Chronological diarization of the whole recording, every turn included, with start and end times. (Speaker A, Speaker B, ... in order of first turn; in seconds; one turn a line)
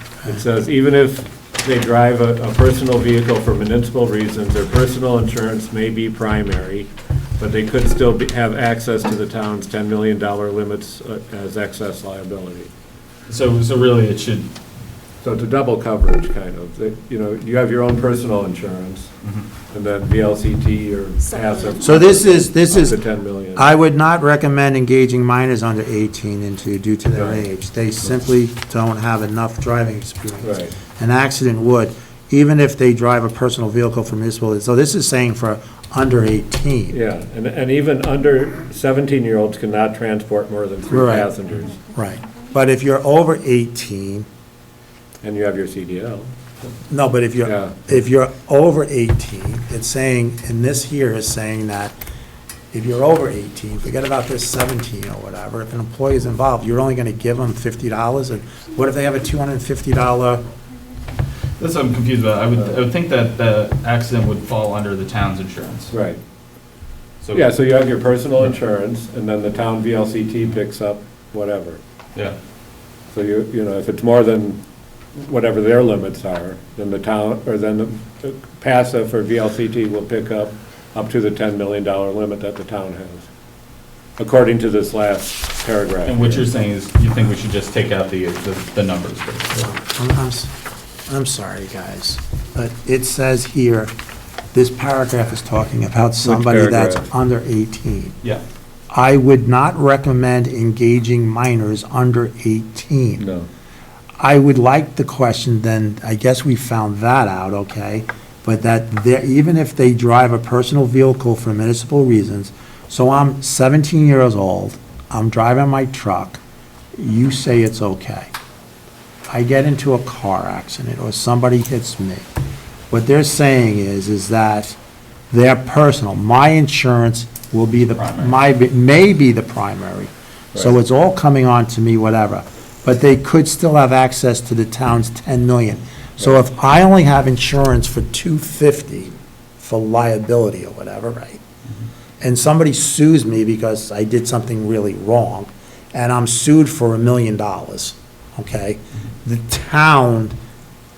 Speaker A: 0.2-12.7
Speaker B: 13.3-14.5
Speaker A: 15.2-19.1
Speaker A: 19.7-23.7
Speaker C: 21.8-23.0
Speaker C: 23.5-37.0
Speaker A: 27.1-27.4
Speaker A: 30.4-30.7
Speaker A: 36.9-41.8
Speaker C: 40.9-44.3
Speaker A: 45.2-46.3
Speaker C: 46.9-51.9
Speaker A: 47.4-47.7
Speaker C: 52.7-60.5
Speaker B: 61.6-65.9
Speaker A: 65.9-66.2
Speaker B: 67.2-67.5
Speaker A: 67.3-71.8
Speaker A: 73.1-74.6
Speaker A: 75.1-83.3
Speaker A: 84.2-86.5
Speaker B: 86.0-89.7
Speaker C: 89.6-90.5
Speaker C: 91.1-93.9
Speaker C: 94.5-98.2
Speaker A: 96.2-97.0
Speaker C: 98.9-103.2
Speaker A: 103.2-103.5
Speaker C: 104.2-116.4
Speaker C: 117.0-118.3
Speaker C: 119.3-122.3
Speaker C: 122.9-124.8
Speaker C: 125.3-141.4
Speaker B: 128.0-128.3
Speaker C: 142.2-150.3